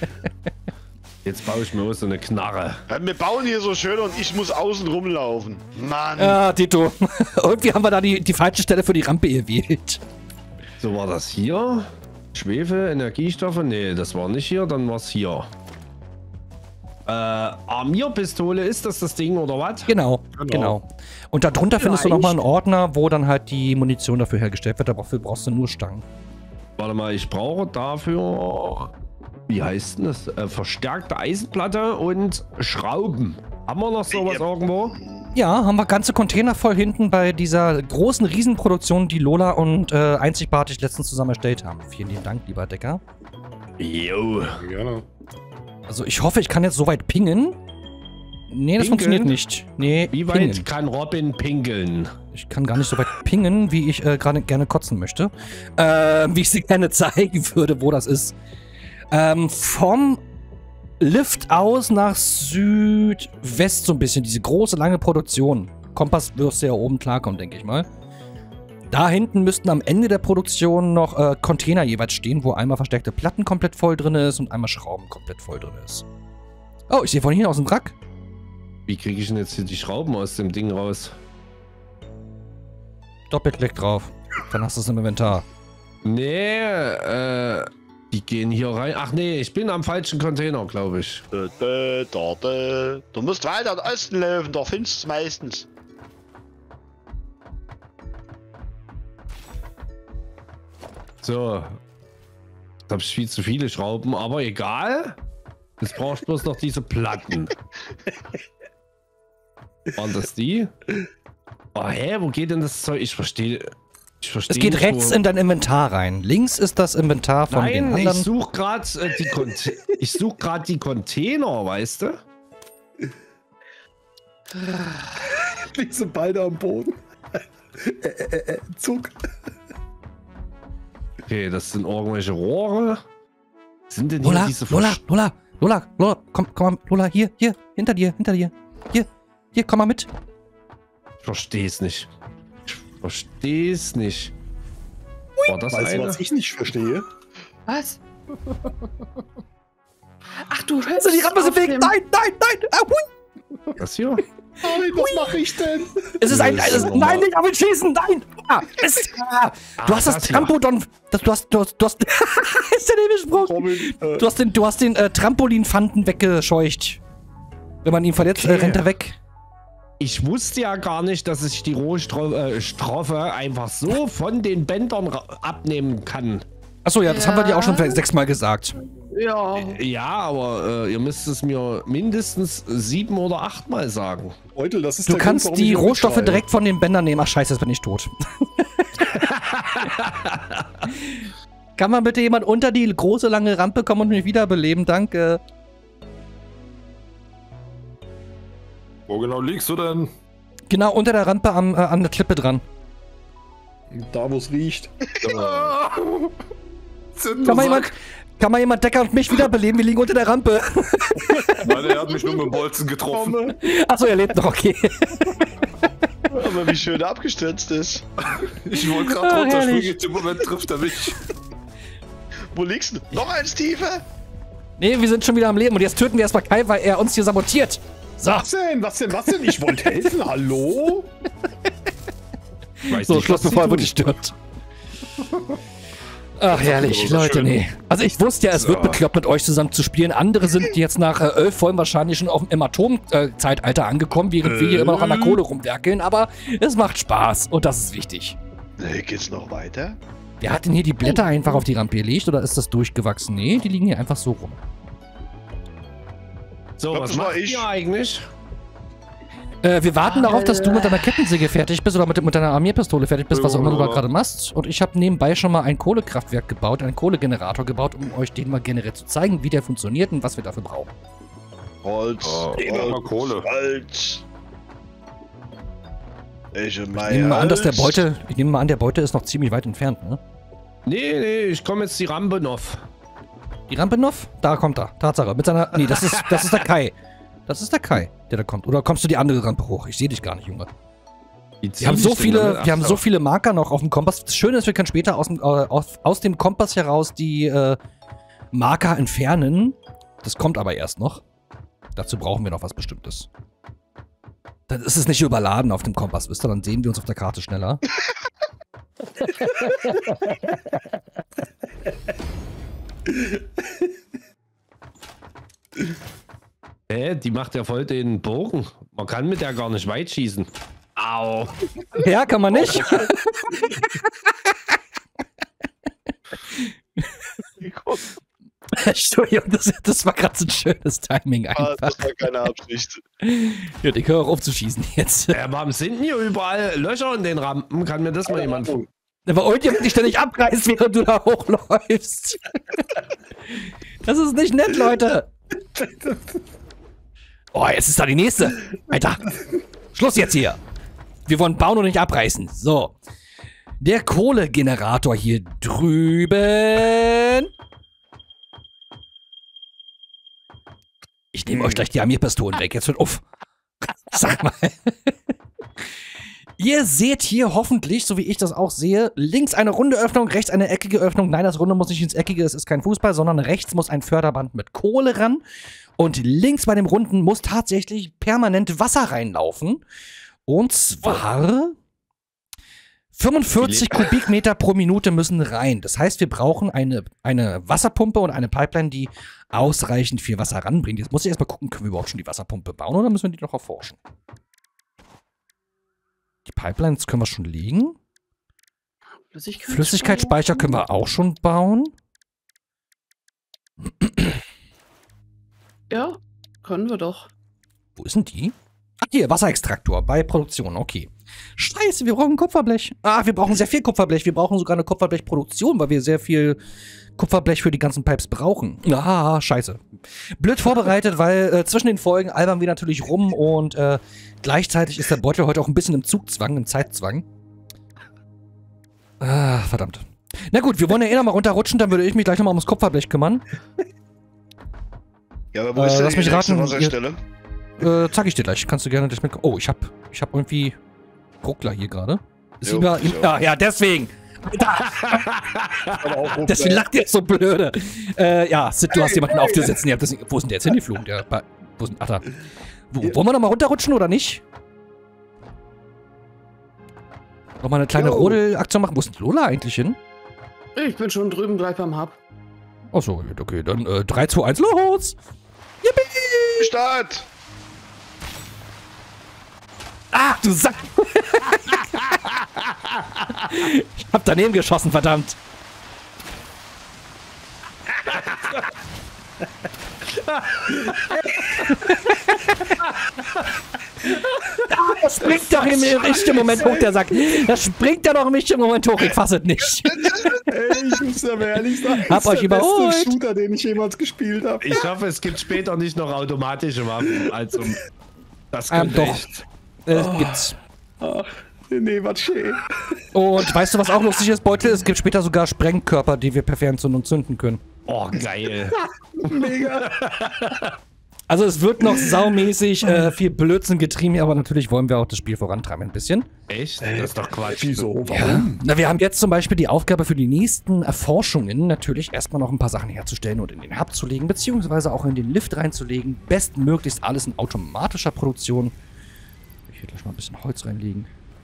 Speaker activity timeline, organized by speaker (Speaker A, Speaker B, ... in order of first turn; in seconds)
Speaker A: 1.2-2.8, 10.8-15.5, 17.1-19.9, 21.8-22.2, 26.8-28.9, 29.5-35.0, 43.8-44.7, 48.8-49.4, 50.1-52.1, 78.9-81.2, 86.0-91.2, 101.2-101.8, 102.9-105.2, 105.8-107.5, 110.0-110.7, 111.7-115.2, 117.5-122.2, 131.2-133.0, 133.9-135.0, 141.2-142.1, 142.7-144.3, 145.5-146.2, 153.8-154.2, 156.3-157.3, 159.8-160.5, 168.3-168.8, 170.0-176.4, 179.5-184.3, 189.1-190.9, 205.3-205.8, 232.9-234.1, 238.5-239.0, 256.8-258.3, 280.9-282.8, 285.8-286.5, 291.6-293.0, 316.9-321.6, 322.6-322.9, 335.3-338.8, 383.6-384.1, 445.1-446.0, 458.0-458.4, 478.0-478.5, 480.2-481.2, 485.3-486.2, 494.6-497.8, 498.5-499.2, 507.9-508.8, 509.3-510.7, 516.5-517.9
Speaker B: 2.9-6.4, 34.1-35.4, 91.3-95.7, 216.3-218.0, 222.5-224.0, 248.8-250.0, 256.9-257.7, 271.8-274.2, 276.5-278.0, 327.6-328.1, 331.5-333.0, 435.5-437.2, 442.6-443.3, 466.6-467.3, 490.0-490.4
Speaker C: 6.2-10.0, 19.9-26.0, 35.3-43.0, 45.9-47.6, 48.5-50.7, 52.3-58.4, 59.1-60.2, 61.0-67.9, 68.9-76.0, 76.9-78.0, 83.3-85.4, 114.5-118.3, 134.2-140.1, 150.9-153.0, 155.0-155.3, 156.2-167.0, 167.8-169.2, 176.8-178.8, 185.1-188.5, 191.8-195.4, 200.7-202.6, 207.4-211.7, 213.6-215.4, 218.8-220.0, 224.8-228.5, 232.8-234.3, 236.4-248.4, 250.4-254.6, 259.6-270.9, 277.0-280.2, 283.7-286.9, 287.5-290.7, 291.8-297.8, 298.5-301.2, 301.9-303.3, 304.7-307.8, 321.9-324.1, 328.7-332.1, 333.2-335.4, 339.3-342.8, 344.0-345.3, 347.5-349.3, 349.9-350.6, 351.2-352.9, 353.8-357.5, 361.3-363.2, 364.1-365.1, 366.6-375.4, 376.0-379.8, 380.5-381.8, 383.1-394.0, 396.4-398.0, 399.7-401.9, 404.0-404.2, 408.0-416.6, 417.2-419.8, 420.4-427.2, 429.2-433.4, 435.8-436.9, 437.8-440.8, 441.4-445.2, 446.4-452.3, 452.9-454.4, 457.6-460.0, 462.9-465.2, 465.8-466.7, 470.1-472.2, 473.2-475.4, 481.6-482.1, 484.6-490.3, 491.9-493.2, 498.7-500.6, 503.1-507.6, 511.3-516.3, 518.1-528.7, 529.7-531.1
Speaker D: 124.5-129.2, 145.7-147.0, 154.6-156.7, 163.4-164.3, 184.5-186.4, 203.9-204.9, 212.0-212.5, 213.1-213.5, 228.3-231.1, 338.3-338.9, 345.8-346.4, 445.9-446.9, 448.9-449.7, 486.0-486.9, 490.4-494.9, 499.9-500.4, 501.0-502.7, 508.8-510.0, 516.8-518.6
Speaker E: 147.7-148.0, 150.5-152.0, 177.0-178.0, 178.8-179.8, 251.2-251.5, 260.0-261.3, 399.3-400.8, 405.9-407.3, 460.8-462.2
Speaker F: 199.1-200.1, 205.3-206.2, 207.2-207.9, 211.7-213.5, 218.3-221.2, 236.5-237.6, 244.5-245.4, 263.3-264.0, 272.2-273.5